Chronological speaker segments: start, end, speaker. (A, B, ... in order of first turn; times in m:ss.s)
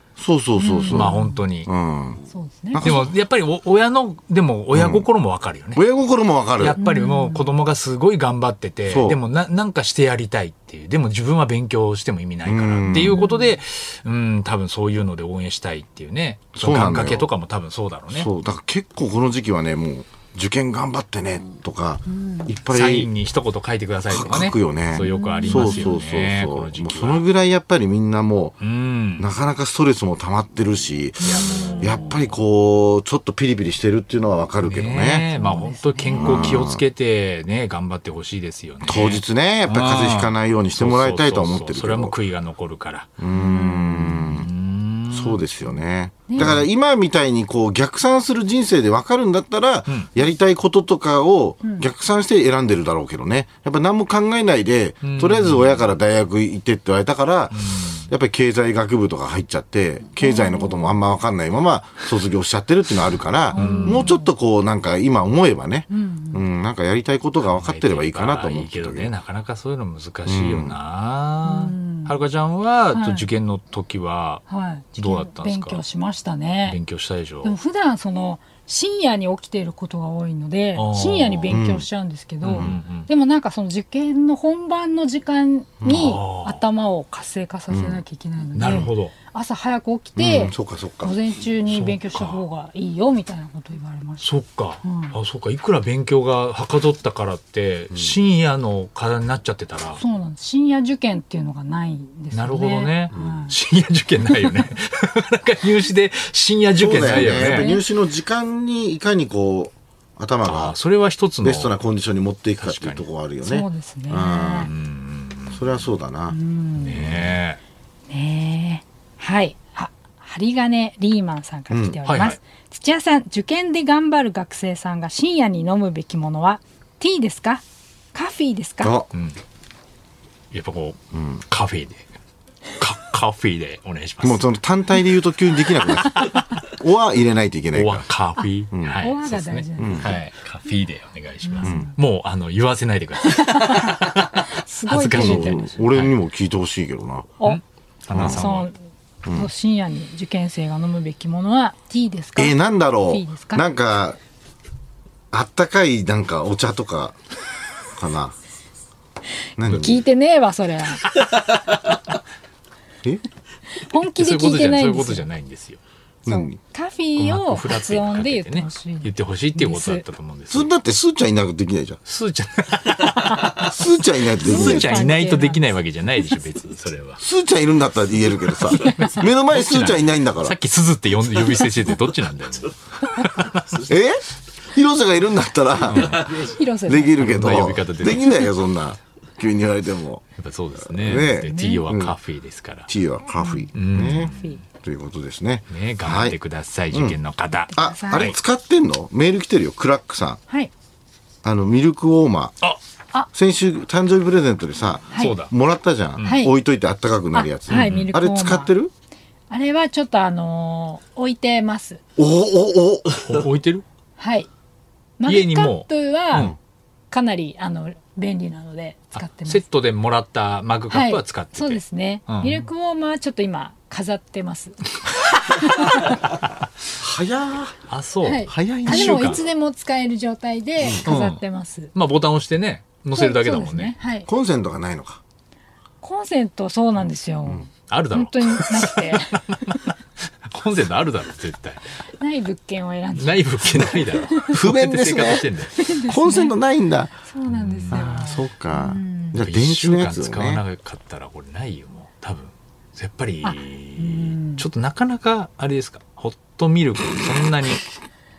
0:00.2-0:02.2 A
0:00.6-0:01.4 B
0:00.9-0:01.7 C
0:02.3-0:03.0 B
0:02.7-0:03.1 A
0:02.8-0:05.8 C
0:04.7-0:05.1 A
0:05.8-0:06.8 A
0:06.6-0:18.3 C
0:06.8-0:07.5 B
0:08.9-0:09.2 A
0:12.4-0:13.2 A
0:12.9-0:13.6 B
0:16.5-0:17.3 A
0:18.1-0:23.1 A
0:22.1-0:22.5 B
0:22.7-0:27.2 C
0:24.1-0:28.6 A
0:25.0-0:26.0 B
0:28.6-0:29.3 C
0:29.2-0:35.2 A
0:31.2-0:32.3 C
0:31.2-0:32.1 B
0:34.6-0:43.1 C
0:35.3-0:36.6 B
0:36.2-0:36.8 A
0:38.8-0:42.2 A
0:43.2-0:44.5 A
0:43.3-0:44.3 B
0:44.1-0:45.4 C
0:45.1-1:09.1 A
0:46.3-0:46.6 B
0:46.4-0:46.7 C
0:55.0-0:55.9 C
0:57.5-0:58.1 C
1:00.2-1:01.0 B
1:03.5-1:04.3 B
1:03.5-1:04.2 C
1:05.9-1:06.4 B
1:07.4-1:14.4 C
1:10.2-1:10.7 A
1:11.4-1:12.1 B
1:12.9-1:13.3 B
1:14.5-1:16.8 B
1:14.9-1:15.8 C
1:16.7-1:17.5 C
1:17.4-1:34.2 B
1:20.7-1:21.6 C
1:21.5-1:21.9 A
1:22.4-1:23.1 C
1:25.8-1:26.1 A
1:25.8-1:26.6 C
1:27.7-1:28.0 A
1:28.5-1:29.1 C
1:30.2-1:31.2 A
1:31.6-1:32.4 C
1:34.2-1:40.0 C
1:34.8-1:35.2 B
1:40.0-1:43.5 B
1:42.3-1:47.7 C
1:43.1-1:43.4 A
1:46.7-1:50.8 A
1:47.0-1:47.8 B
1:50.4-1:51.8 C
1:51.4-1:54.7 A
1:52.6-1:53.0 C
1:53.4-1:54.7 B
1:54.6-1:55.7 C
1:55.5-1:56.4 A
1:56.3-1:57.2 B
1:56.8-1:57.6 C
1:56.9-1:57.3 A
1:58.1-2:09.0 B
2:01.7-2:02.0 A
2:02.0-2:02.4 C
2:08.8-2:09.1 A
2:10.5-2:12.0 C
2:12.8-2:14.4 C
2:14.2-2:18.0 A
2:17.7-2:26.1 C
2:18.7-2:19.0 A
2:19.0-2:20.2 B
2:19.8-2:20.1 A
2:21.4-2:21.9 B
2:21.6-2:21.9 A
2:23.2-2:25.6 B
2:25.0-2:27.3 A
2:27.4-2:28.7 C
2:28.1-2:28.8 B
2:28.1-2:28.4 A
2:29.3-2:32.6 B
2:32.4-2:34.2 A
2:33.1-2:33.6 B
2:35.3-2:37.2 A
2:37.9-2:38.3 A
2:39.6-2:40.0 A
2:39.7-2:41.0 B
2:43.7-2:45.3 B
2:44.0-2:45.8 C
2:46.2-2:46.6 A
2:46.2-2:50.0 B
2:47.2-2:50.7 C
2:50.5-2:52.0 A
2:52.0-2:53.8 C
2:53.6-2:55.0 A
2:54.4-2:57.2 C
2:54.4-2:55.6 B
2:57.2-3:00.6 A
2:58.7-2:59.2 B
2:59.0-3:03.8 C
3:03.8-3:10.2 A
3:05.9-3:06.5 C
3:06.3-3:07.3 B
3:07.1-3:08.4 C
3:10.4-3:12.9 C
3:10.9-3:12.2 A
3:11.3-3:11.8 B
3:12.9-3:16.4 A
3:13.3-3:13.7 B
3:13.7-3:14.6 C
3:14.3-3:14.6 B
3:15.7-3:18.4 C
3:16.9-3:17.2 A
3:17.7-3:18.3 B
3:17.7-3:20.4 A
3:21.4-3:22.6 A
3:23.3-3:28.9 A
3:25.2-3:25.5 C
3:26.2-3:26.5 B
3:27.3-3:28.7 B
3:27.7-3:28.1 C
3:29.5-3:32.0 B
3:32.2-3:33.4 A
3:33.2-3:33.8 C
3:34.2-3:34.5 B
3:35.2-3:36.5 B
3:35.2-3:36.5 C
3:37.1-3:39.6 B
3:39.2-3:42.7 C
3:40.9-3:44.9 B
3:45.5-3:46.1 B
3:47.0-3:47.8 A
3:47.9-3:49.4 C
3:48.2-3:51.9 B
3:48.5-3:49.4 A
3:51.0-3:51.4 C
3:51.9-3:53.9 C
3:53.1-3:54.3 B
3:54.3-3:55.2 A
3:56.0-3:59.8 B
3:57.9-3:59.8 C
4:00.5-4:01.8 C
4:02.2-4:04.5 B
4:03.2-4:05.8 C
4:04.5-4:07.1 A
4:05.7-4:06.5 B
4:07.2-4:09.4 B
4:07.5-4:08.2 C
4:07.9-4:10.6 A
4:09.3-4:17.9 C
4:13.4-4:14.6 B